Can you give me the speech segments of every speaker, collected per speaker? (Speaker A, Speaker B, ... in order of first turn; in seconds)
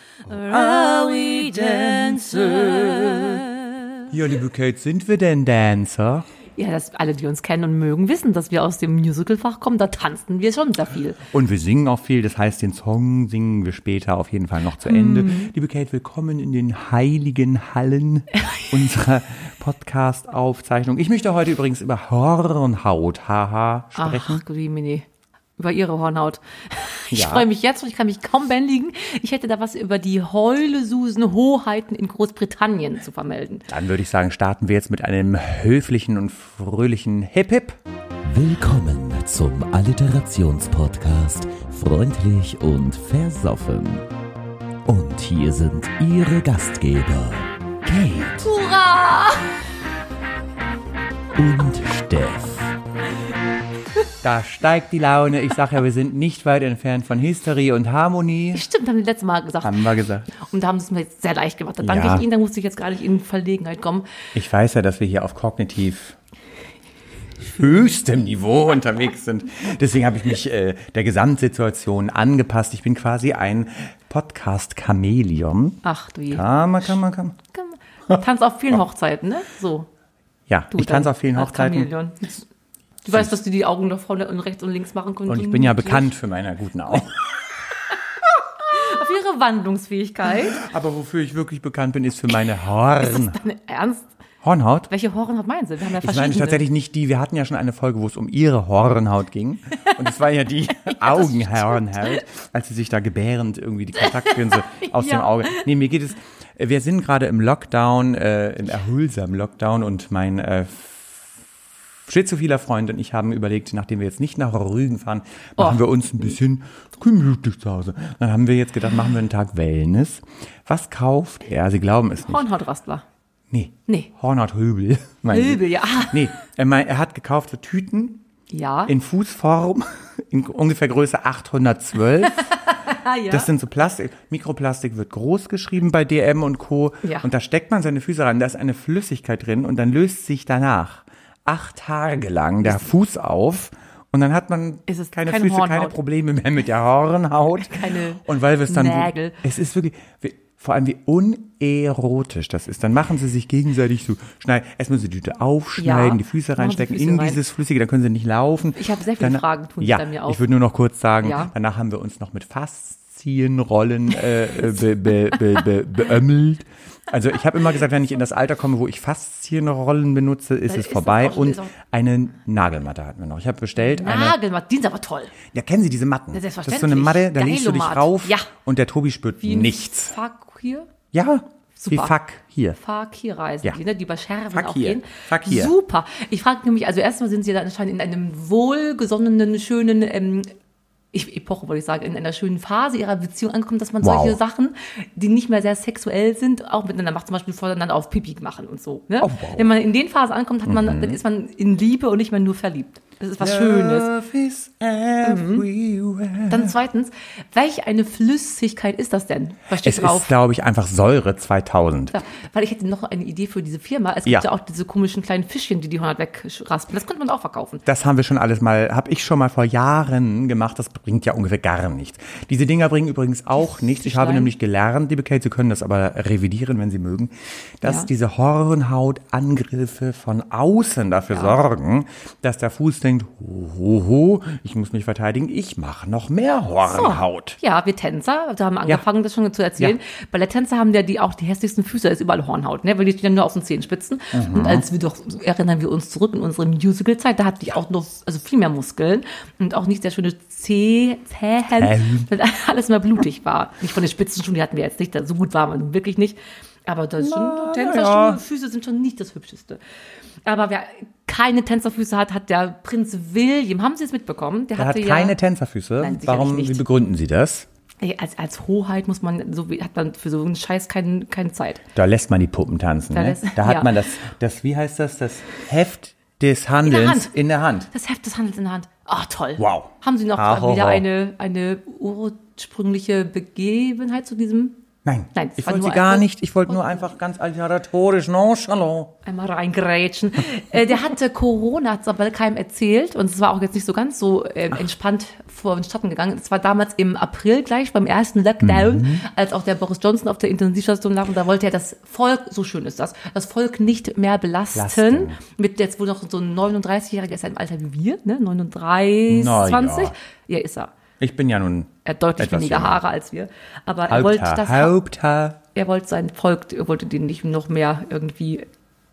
Speaker A: 0.3-3.9
Speaker B: 0.4-3.4, 4.1-6.3, 11.2-24.4, 27.1-27.5, 33.7-44.0, 44.9-48.5, 51.4-52.7, 54.2-58.6, 59.6-60.3, 61.8-62.3, 64.3-66.2, 67.5-77.4, 80.5-81.9, 85.3-87.4, 90.5-93.4, 94.4-94.9, 96.0-111.3, 112.1-122.5, 123.5-128.2, 128.9-132.6, 133.3-174.4, 175.5-180.2, 181.1-182.8, 184.5-185.7, 194.0-194.4, 199.2-199.7, 200.7-201.2, 203.4-206.7, 209.8-212.2, 217.8-237.6, 244.3-244.9, 251.7-252.3, 257.2-258.4, 264.8-267.7, 271.9-277.9, 279.6-281.0, 285.1-289.1, 298.6-299.2, 304.8-305.4, 309.3-310.1, 311.2-313.0, 314.1-315.6
Speaker C: 6.6-11.2, 14.8-15.5, 24.0-25.1, 25.6-33.7, 48.4-49.5, 58.5-64.1, 75.8-76.9, 77.5-79.9, 80.7-82.5, 83.0-86.1, 88.7-90.6, 93.0-94.1, 94.9-96.7, 100.9-101.9, 104.2-105.6, 115.6-116.4, 122.2-123.0, 125.3-126.2, 128.5-128.9, 132.5-133.5, 137.0-137.3, 144.9-146.0, 147.6-149.4, 155.8-157.4, 158.8-160.4, 161.2-161.5, 170.7-171.8, 174.0-175.4, 176.3-178.5, 179.4-180.9, 181.8-182.1, 182.8-190.5, 191.1-204.1, 205.2-205.7, 206.5-210.3, 212.1-217.8, 223.8-224.5, 236.9-259.8, 260.4-265.4, 266.0-266.8, 268.0-271.8, 273.1-274.1, 276.8-277.3, 277.9-284.8, 285.4-287.0, 289.2-310.9, 312.1-314.9, 315.8-318.7